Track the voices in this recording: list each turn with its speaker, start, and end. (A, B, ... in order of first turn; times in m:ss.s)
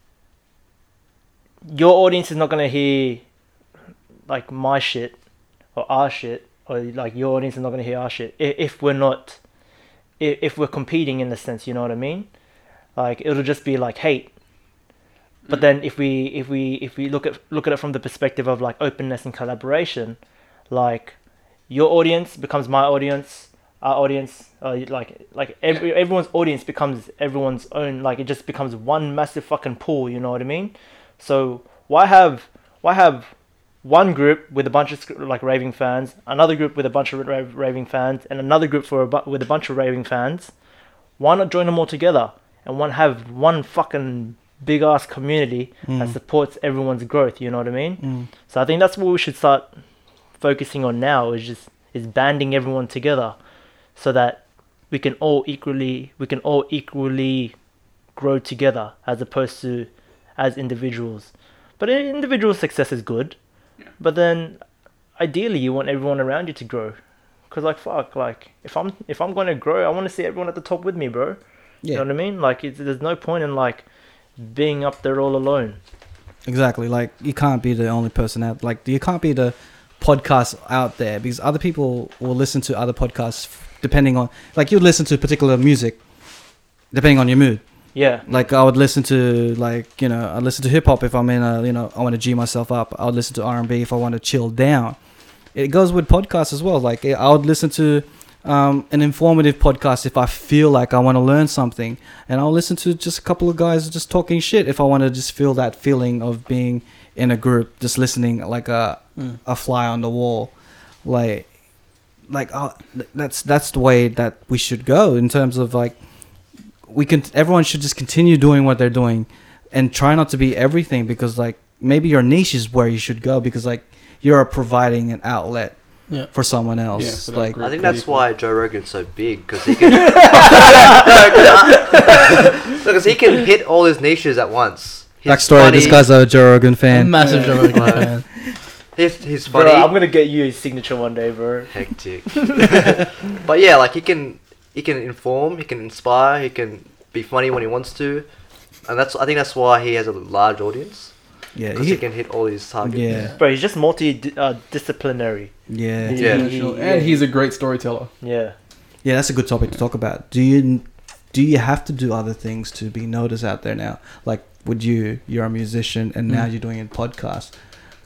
0:01.7-0:03.2 A
0:04.3-0:05.1 A
0:05.7-0:09.4 A
0:10.2-0:12.3 A
0:13.0-0:14.3 A
0:15.5-0:20.2 A
0:20.7-0:21.1 A
0:21.7-0:33.3 A
0:33.8-0:40.5 A
0:41.2-0:49.7 A
0:45.9-0:46.2 B
0:48.0-0:48.3 B
0:50.4-0:53.4 A
0:54.0-0:57.5 A
0:58.2-1:03.4 A
1:04.0-1:04.6 A
1:05.2-1:07.0 A
1:07.5-1:11.4 A
1:11.9-1:13.8 A
1:14.4-1:15.8 A
1:16.4-1:26.0 B
1:26.9-1:27.6 B
1:28.0-1:28.2 A
1:28.3-1:35.0 B
1:35.6-1:50.5 B
1:51.0-1:51.5 B
1:52.3-1:56.0 B
1:56.9-2:05.8 B
2:06.3-2:07.6 B
2:07.0-2:08.2 C
2:07.6-2:16.0 D
2:09.9-2:10.4 E
2:15.3-2:17.3 B
2:15.7-2:16.0 E
2:16.9-2:18.2 E
2:17.7-2:18.2 D
2:19.0-2:19.9 D
2:19.4-2:21.7 A
2:21.7-2:28.3 D
2:28.9-2:31.1 D
2:31.6-2:32.0 B
2:31.7-2:33.0 D
2:32.8-2:33.3 B
2:33.4-2:35.5 A
2:35.7-2:36.2 B
2:36.1-2:37.2 A
2:36.1-2:38.1 C
2:36.2-2:36.5 D
2:38.2-2:38.6 A
2:39.0-2:47.5 B